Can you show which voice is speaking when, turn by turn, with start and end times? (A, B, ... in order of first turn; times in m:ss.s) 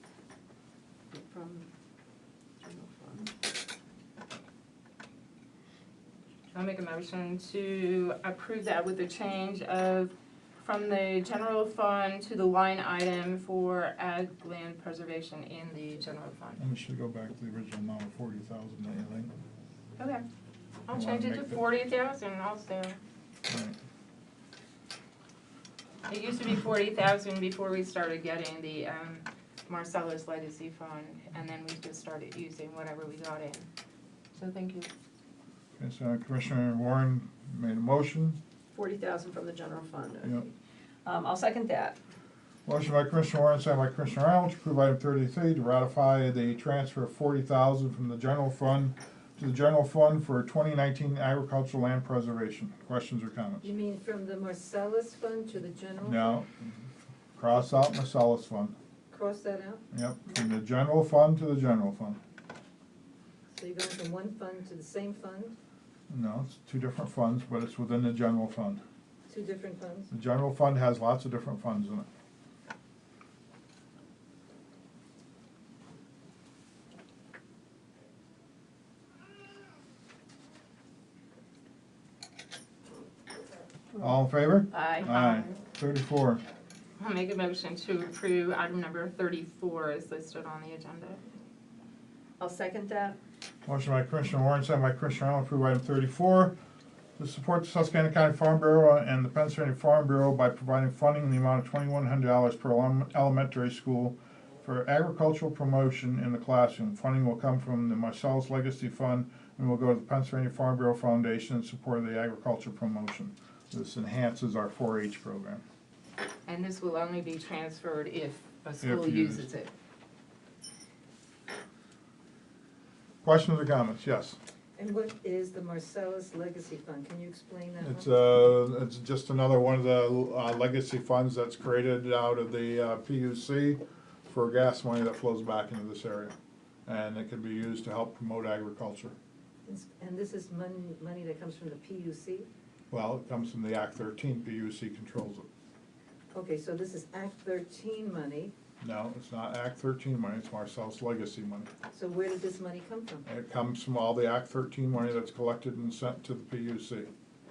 0:01.1-0:01.6 A
0:02.6-0:03.3 A
0:06.5-0:16.6 B
0:16.6-0:19.3 C
0:20.0-0:20.2 B
0:20.9-0:23.0 B
0:20.9-0:21.6 C
0:23.5-0:23.8 C
0:26.1-0:33.7 B
0:34.3-0:34.9 B
0:35.8-0:38.4 C
0:38.7-0:40.5 A
0:41.0-0:42.0 A
0:42.6-0:53.7 C
0:53.6-0:56.4 D
0:56.0-0:56.5 C
0:57.4-0:58.8 C
0:59.1-0:59.8 D
0:59.9-1:02.2 C
1:03.5-1:05.6 D
1:06.1-1:08.8 C
1:09.3-1:10.1 D
1:10.1-1:12.1 C
1:24.0-1:26.4 C
1:24.7-1:25.1 A
1:25.0-1:25.5 B
1:27.0-1:31.2 B
1:32.4-1:33.2 A
1:33.6-1:36.5 C
1:37.2-1:55.6 C
1:56.5-1:59.7 B
1:58.8-1:59.5 C
2:03.2-2:04.4 C
2:04.8-2:08.1 D
2:07.8-2:16.3 C
2:16.8-2:19.1 C
2:19.6-2:22.5 D
2:22.9-2:25.5 C
2:26.3-2:28.5 D
2:28.8-2:31.7 C
2:31.9-2:33.2 D
2:33.2-2:37.1 C